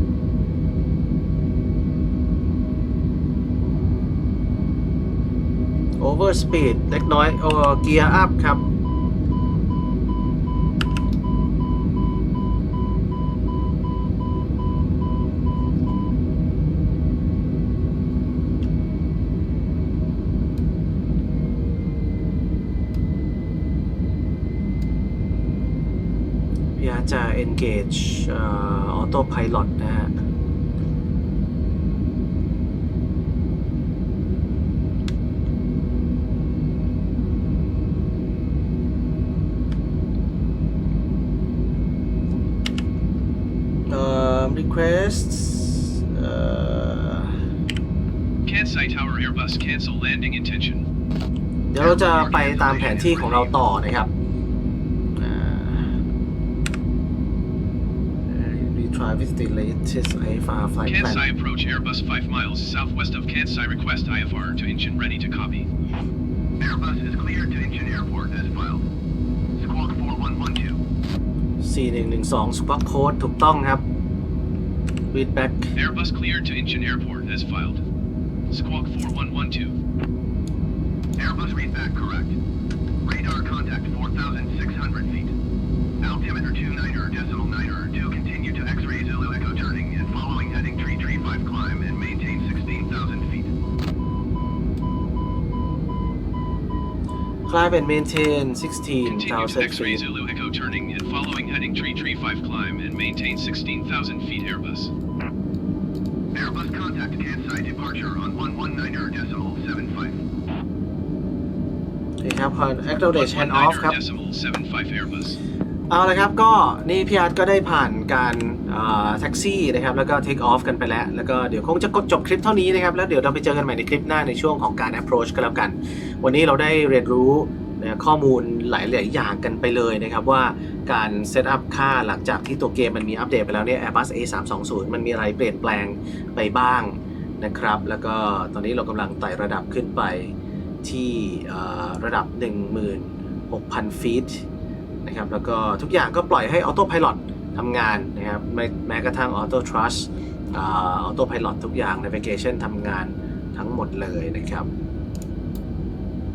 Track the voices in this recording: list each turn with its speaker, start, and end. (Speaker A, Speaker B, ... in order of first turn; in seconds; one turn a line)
Speaker A: 6.0-8.7
Speaker A: 26.8-30.2
Speaker A: 43.9-47.4
Speaker B: 48.4-50.8
Speaker A: 51.7-54.1
Speaker B: 51.8-53.5
Speaker A: 55.1-56.0
Speaker A: 58.3-61.2
Speaker B: 60.8-65.7
Speaker C: 66.6-68.8
Speaker C: 69.6-70.8
Speaker A: 71.6-73.8
Speaker A: 75.1-75.7
Speaker B: 75.8-77.8
Speaker B: 78.5-79.7
Speaker C: 81.2-82.3
Speaker C: 83.0-85.3
Speaker C: 86.0-93.5
Speaker A: 97.5-100.0
Speaker B: 99.0-104.9
Speaker C: 106.3-110.2
Speaker A: 112.2-114.0
Speaker B: 113.1-115.4
Speaker A: 115.9-144.4
Speaker A: 145.0-154.7